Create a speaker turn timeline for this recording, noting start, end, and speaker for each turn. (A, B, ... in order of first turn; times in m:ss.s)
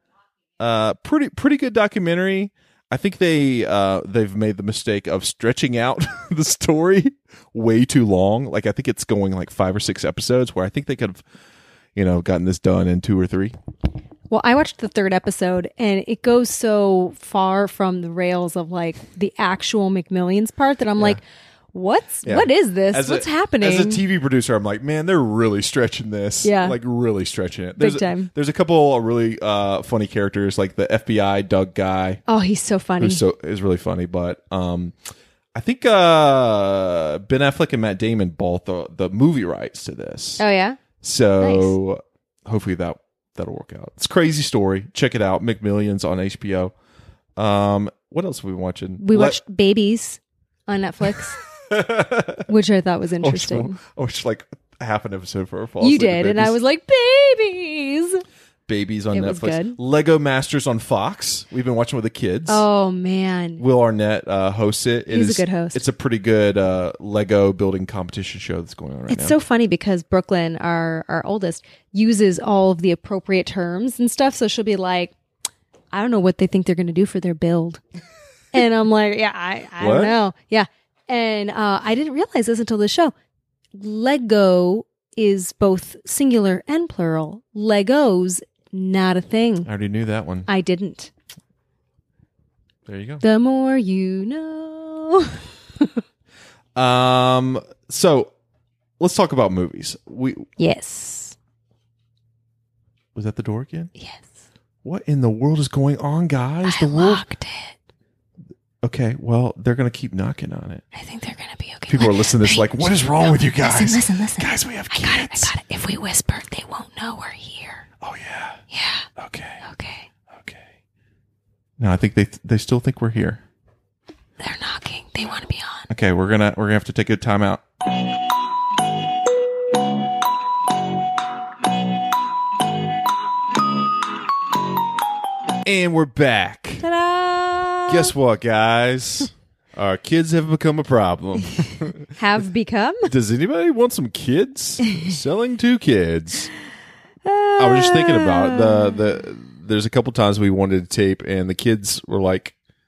0:00.6-0:11.2 A
0:11.9-0:13.5 A
0:14.3-0:21.2 B
0:21.7-0:24.0 B
0:22.2-0:32.2 A
0:26.4-0:26.8 B
0:27.8-0:28.3 B
0:32.3-0:33.2 B
0:33.0-0:35.0 A
0:35.5-0:40.4 A
0:40.4-0:40.8 B
0:41.0-0:46.7 A
0:41.4-0:41.7 B
0:47.4-0:49.4 A
0:49.0-0:51.4 B
0:51.1-0:52.5 A
0:52.5-0:53.8 B
0:53.2-0:56.6 A
0:55.8-0:58.2 B
0:58.7-1:02.6 A
0:59.1-0:59.8 B
1:02.5-1:03.6 B
1:03.6-1:09.4 A
1:05.1-1:05.8 B
1:09.1-1:15.1 B
1:15.9-1:17.8 B
1:18.5-1:23.1 B
1:19.8-1:20.2 A
1:23.7-1:29.7 B
1:29.6-1:30.5 A
1:30.5-1:31.1 B
1:32.8-1:33.2 A
1:33.2-1:35.9 B
1:36.7-1:38.3 A
1:39.0-1:40.5 A
1:40.6-1:41.4 B
1:43.1-1:43.9 A
1:44.0-1:44.3 B
1:44.8-1:47.2 A
1:46.6-1:47.7 B
1:48.8-1:50.8 A
1:50.9-1:57.8 B
1:51.9-1:55.5 A
1:58.0-1:58.6 A
1:58.7-1:59.1 B
1:59.2-1:59.6 A
1:59.6-2:00.1 B
2:00.3-2:00.6 A
2:01.8-2:03.4 A
2:04.4-2:05.9 B
2:05.9-2:07.6 A
2:15.6-2:16.9 A
2:16.8-2:18.1 B
2:17.9-2:22.1 A
2:22.1-2:23.1 B
2:23.0-2:26.5 A
2:27.2-2:29.0 B
2:27.6-2:32.5 A